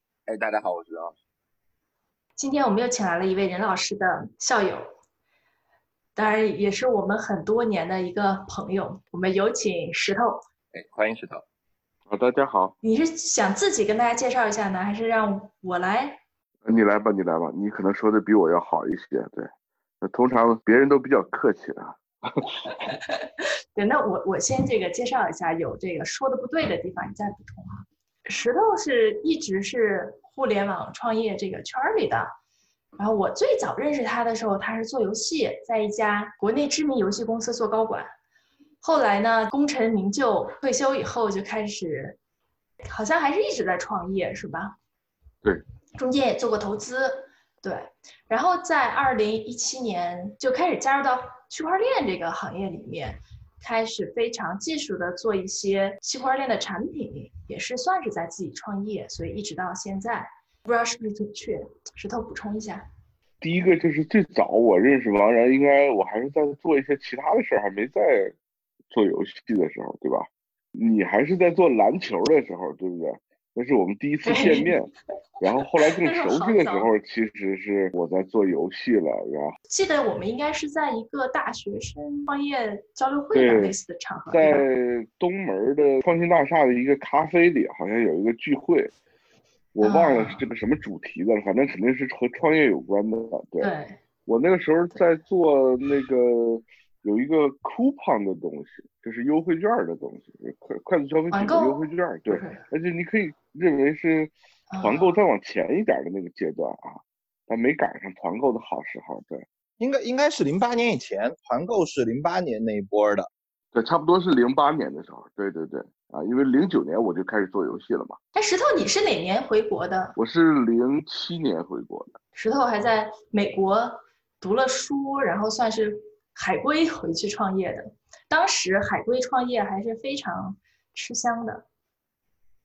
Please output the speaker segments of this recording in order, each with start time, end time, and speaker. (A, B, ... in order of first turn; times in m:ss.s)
0:00.2-0:01.2 A
0:02.4-0:04.8 B
0:06.2-0:10.4 B
0:10.7-0:11.4 A
0:12.1-0:12.7 C
0:12.8-0:16.2 B
0:16.6-0:19.5 C
0:20.0-0:22.6 C
0:22.8-0:23.2 B
0:23.7-0:32.3 B
0:33.0-0:38.1 B
0:38.8-0:42.2 B
0:42.8-0:44.7 B
0:46.0-1:02.8 B
1:03.4-1:08.4 C
1:08.9-1:19.6 C
1:14.2-1:14.7 B
1:15.6-1:16.9 B
1:19.7-1:24.6 B
1:23.3-1:23.8 C
1:24.3-1:28.9 C
1:29.7-1:33.7 C
1:29.8-1:30.4 B
1:33.6-1:34.0 B
1:34.3-1:49.4 C
1:41.3-1:42.6 B
1:44.7-1:45.2 B
1:49.8-1:53.3 A
1:53.7-1:58.2 C
1:58.3-2:00.2 B
2:00.2-2:02.2 C
2:02.3-2:11.6 B